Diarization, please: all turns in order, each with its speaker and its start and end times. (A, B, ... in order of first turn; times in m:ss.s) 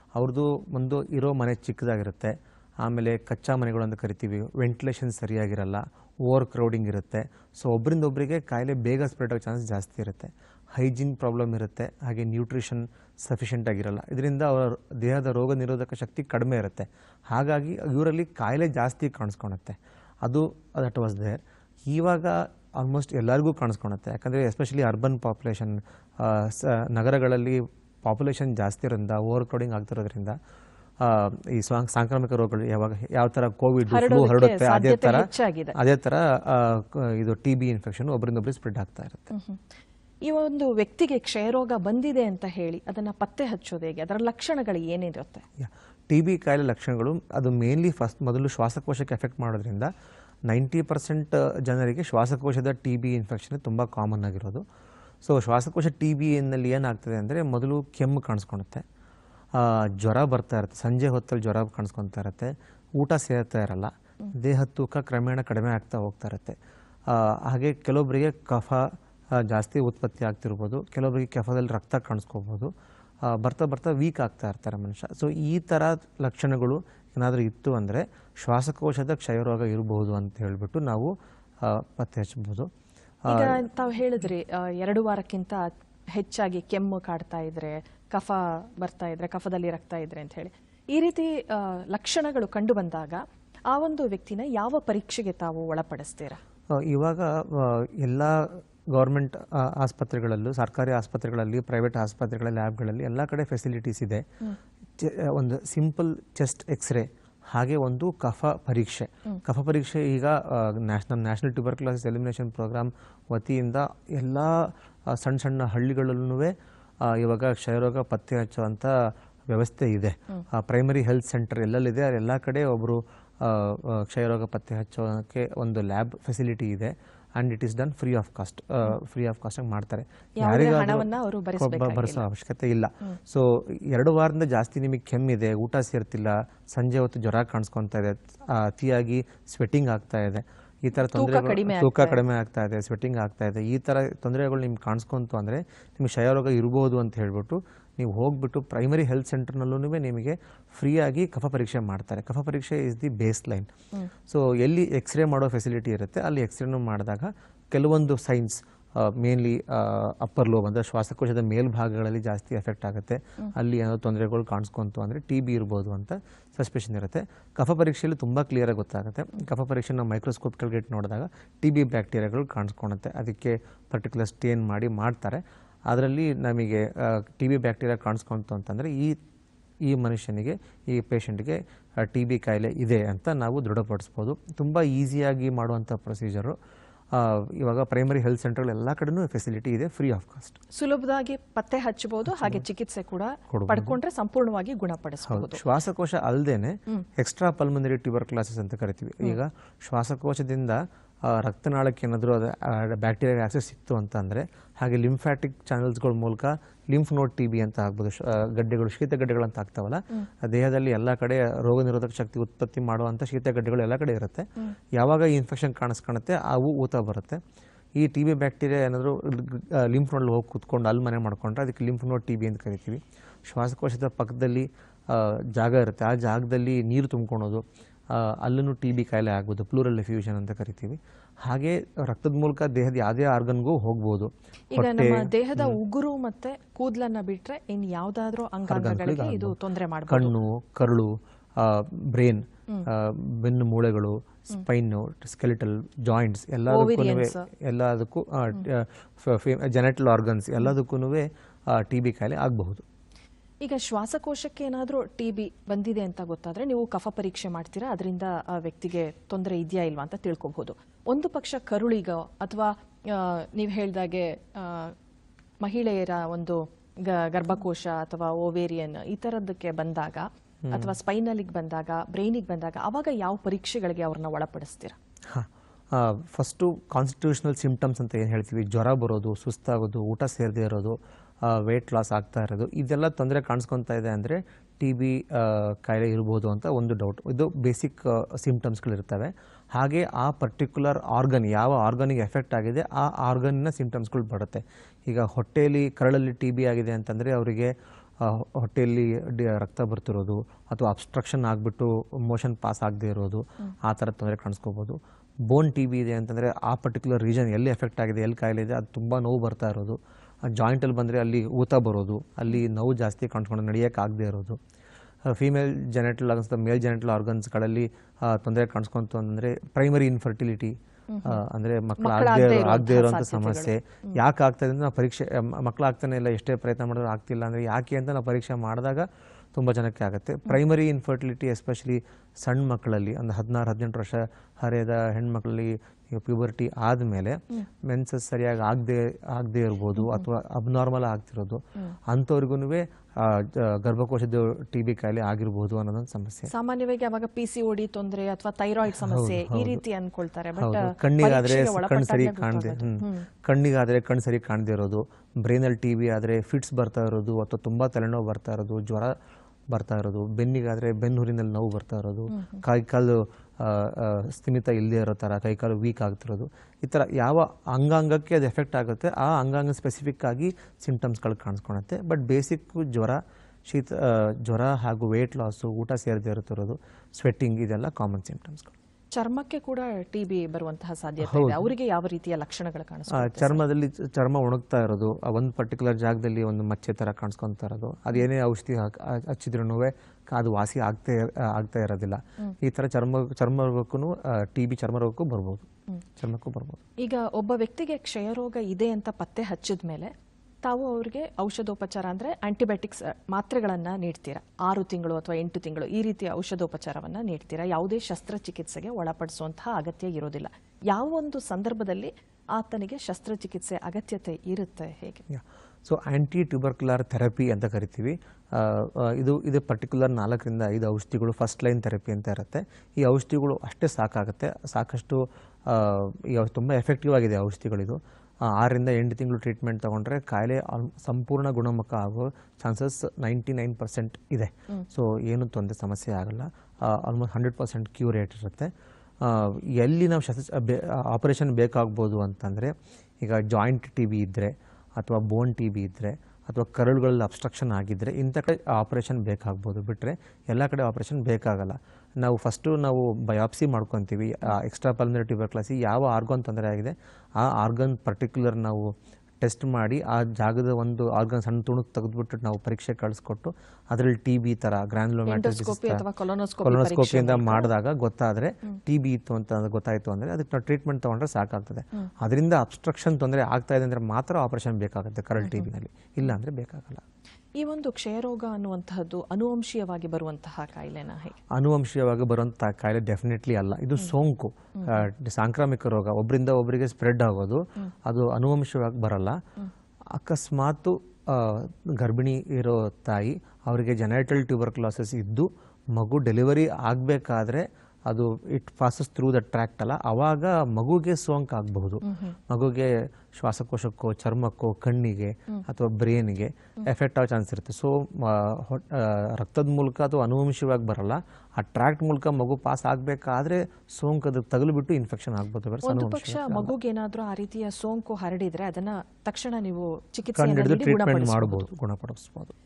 0:00.1-0:30.4 A
0:31.0-0:39.3 A
0:33.9-0:35.8 B
0:39.3-0:39.6 B
0:40.2-0:45.4 B
0:45.6-0:49.9 A
0:50.5-0:54.6 A
0:55.2-0:58.8 A
0:59.5-1:06.6 A
1:07.1-1:12.7 A
1:13.2-1:22.7 A
1:23.2-1:23.6 A
1:23.3-1:36.4 B
1:36.7-1:44.2 A
1:45.0-2:33.7 A
2:10.4-2:12.2 B
2:21.0-2:22.2 B
2:34.3-2:59.1 A
2:59.8-3:06.6 A
3:07.1-3:10.6 A
3:10.7-3:15.6 B
3:12.2-3:12.6 A
3:13.5-3:14.0 A
3:15.3-3:37.4 A
3:38.0-3:55.8 A
3:54.7-4:00.3 B
3:58.7-3:59.6 A
4:00.1-4:12.8 A
4:06.7-4:07.4 B
4:13.6-4:24.9 B
4:25.6-4:35.0 B
4:30.6-4:31.0 A
4:35.3-5:14.6 A
5:15.2-5:46.5 A
5:21.1-5:21.4 B
5:22.0-5:24.2 B
5:40.0-5:40.2 B
5:46.5-5:53.3 B
5:48.9-5:49.8 A
5:50.6-5:59.1 A
5:59.7-6:18.7 A
6:02.3-6:02.6 B
6:19.1-6:23.6 B
6:21.2-6:21.7 A
6:23.1-6:36.8 A
6:37.0-6:40.1 B
6:40.6-6:55.2 B
6:55.3-7:46.0 A
7:45.3-7:47.7 B
7:46.6-7:57.0 A
7:55.4-7:55.7 B
7:57.6-8:01.4 B
8:01.5-8:09.4 A
8:04.8-8:05.0 B
8:10.1-8:36.7 A
8:22.0-8:22.4 B
8:35.8-8:41.7 B
8:40.3-8:42.5 A